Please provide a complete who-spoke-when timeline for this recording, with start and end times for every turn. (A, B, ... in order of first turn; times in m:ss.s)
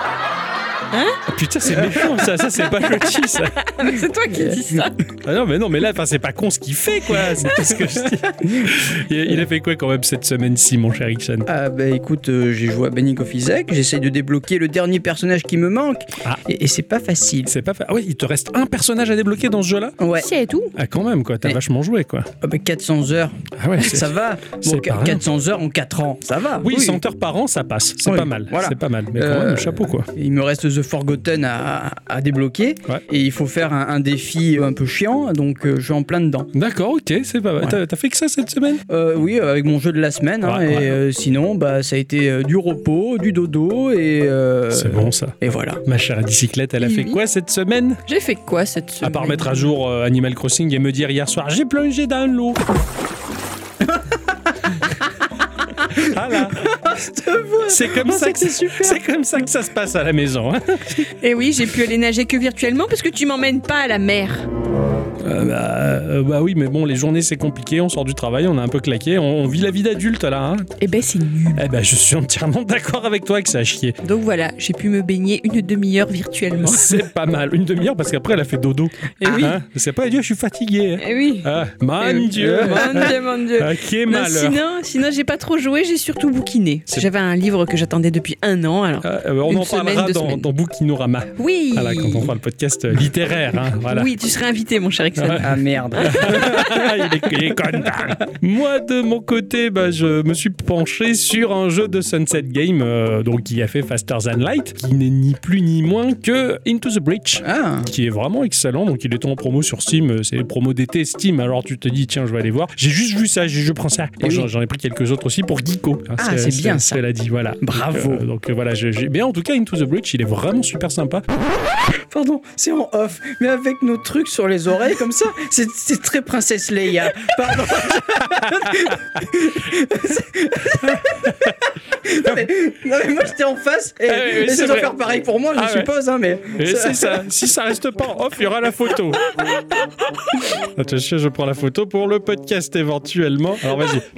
0:00.9-0:01.2 A
0:01.3-0:03.6 B
0:02.5-0:05.0 A
0:04.3-0:04.8 C
0:05.2-0:11.5 B
0:08.2-0:08.7 C
0:11.4-0:17.5 C
0:17.4-0:20.0 B
0:20.0-0:20.3 C
0:20.2-0:20.7 A
0:20.7-0:22.3 B
0:22.4-0:27.0 C
0:23.6-0:25.2 B
0:26.6-0:30.1 B
0:28.0-0:36.5 C
0:36.5-0:38.8 B
0:38.9-0:45.8 C
0:40.4-0:41.0 B
0:44.7-0:48.0 B
0:46.8-0:47.2 A
0:48.1-0:49.7 A
0:49.0-0:52.6 B
0:55.8-0:59.0 C
0:55.9-0:56.7 B
0:57.6-1:01.1 B
1:01.2-1:04.5 A
1:05.2-1:10.7 B
1:10.8-1:11.6 A
1:11.5-1:14.0 B
1:14.0-1:17.0 A
1:16.6-1:24.6 B
1:19.2-1:19.6 A
1:21.0-1:30.4 A
1:22.4-1:23.1 C
1:29.0-1:34.1 B
1:31.4-1:32.3 A
1:33.8-1:37.0 A
1:35.2-2:01.2 B
1:35.4-1:36.8 C
1:47.4-1:47.9 C
1:54.2-1:54.5 C
1:56.2-1:57.0 C
1:57.6-1:58.2 C
2:02.1-2:17.2 C
2:07.8-2:09.2 B
2:10.7-2:11.5 B
2:14.1-2:14.9 B
2:15.5-2:15.9 B
2:16.5-2:19.3 B
2:20.5-2:24.0 B